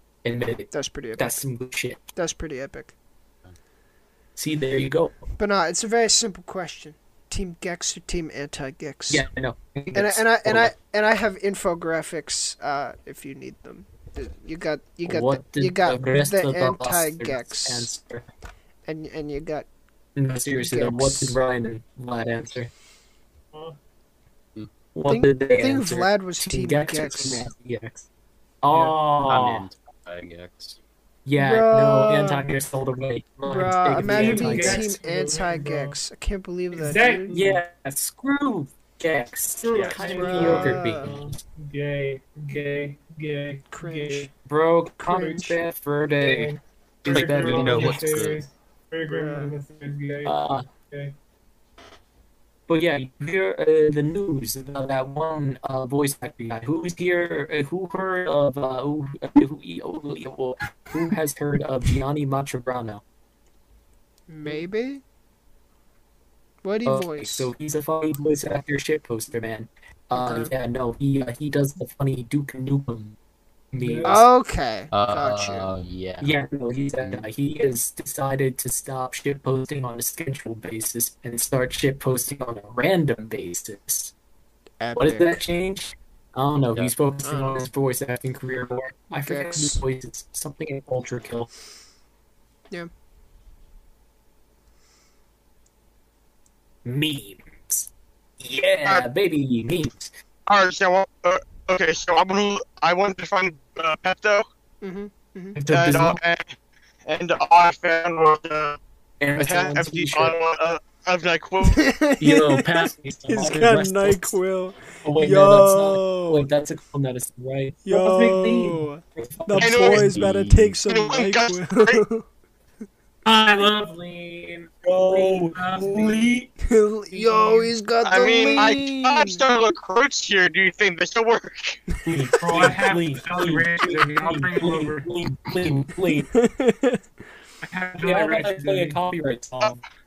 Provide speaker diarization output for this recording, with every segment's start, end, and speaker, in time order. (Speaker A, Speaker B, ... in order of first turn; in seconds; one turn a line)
Speaker A: 0.2-2.1
Speaker B: 0.7-1.4
Speaker B: 2.1-2.9
Speaker A: 4.4-5.2
Speaker B: 5.4-9.2
Speaker A: 9.1-10.7
Speaker B: 9.9-17.9
Speaker A: 15.1-18.3
Speaker B: 18.9-19.7
Speaker A: 20.1-22.7
Speaker B: 20.6-21.4
Speaker C: 23.5-23.8
Speaker A: 24.9-28.1
Speaker B: 25.1-27.5
Speaker A: 28.6-29.6
Speaker C: 28.7-29.0
Speaker D: 29.3-30.8
Speaker A: 31.2-34.9
Speaker B: 31.4-32.5
Speaker B: 33.5-37.4
Speaker C: 33.9-36.0
Speaker C: 36.7-37.6
Speaker A: 37.3-41.4
Speaker C: 39.6-44.3
Speaker D: 39.7-40.8
Speaker B: 40.1-41.0
Speaker B: 43.7-44.3
Speaker A: 44.4-46.5
Speaker B: 45.1-45.5
Speaker C: 46.2-51.1
Speaker A: 47.0-48.4
Speaker D: 47.1-48.4
Speaker B: 49.1-49.5
Speaker A: 50.2-50.6
Speaker A: 52.7-63.0
Speaker B: 64.3-65.0
Speaker B: 66.6-67.5
Speaker A: 66.8-73.2
Speaker B: 70.2-70.5
Speaker A: 73.7-74.2
Speaker C: 73.8-74.2
Speaker B: 74.0-75.7
Speaker D: 74.9-76.3
Speaker A: 76.2-84.1
Speaker D: 77.0-77.3
Speaker B: 84.8-85.4
Speaker A: 85.0-91.5
Speaker B: 87.2-87.7
Speaker B: 89.2-89.8
Speaker A: 96.8-97.9
Speaker A: 98.4-100.1
Speaker E: 100.5-104.5
Speaker B: 104.8-105.5
Speaker A: 105.5-106.2
Speaker E: 105.7-106.5
Speaker E: 107.0-108.8
Speaker A: 109.2-110.3
Speaker E: 109.4-111.9
Speaker B: 111.6-116.5
Speaker A: 112.2-114.4
Speaker A: 115.0-120.4
Speaker B: 117.8-122.2
Speaker E: 119.6-120.1
Speaker D: 120.2-120.8
Speaker E: 120.9-122.0
Speaker C: 123.2-126.3
Speaker A: 124.8-126.5
Speaker B: 126.6-129.4
Speaker C: 127.1-127.7
Speaker E: 128.0-131.8
Speaker A: 132.0-136.3
Speaker C: 132.4-135.1
Speaker B: 136.3-137.0
Speaker C: 137.6-139.0
Speaker A: 138.0-139.8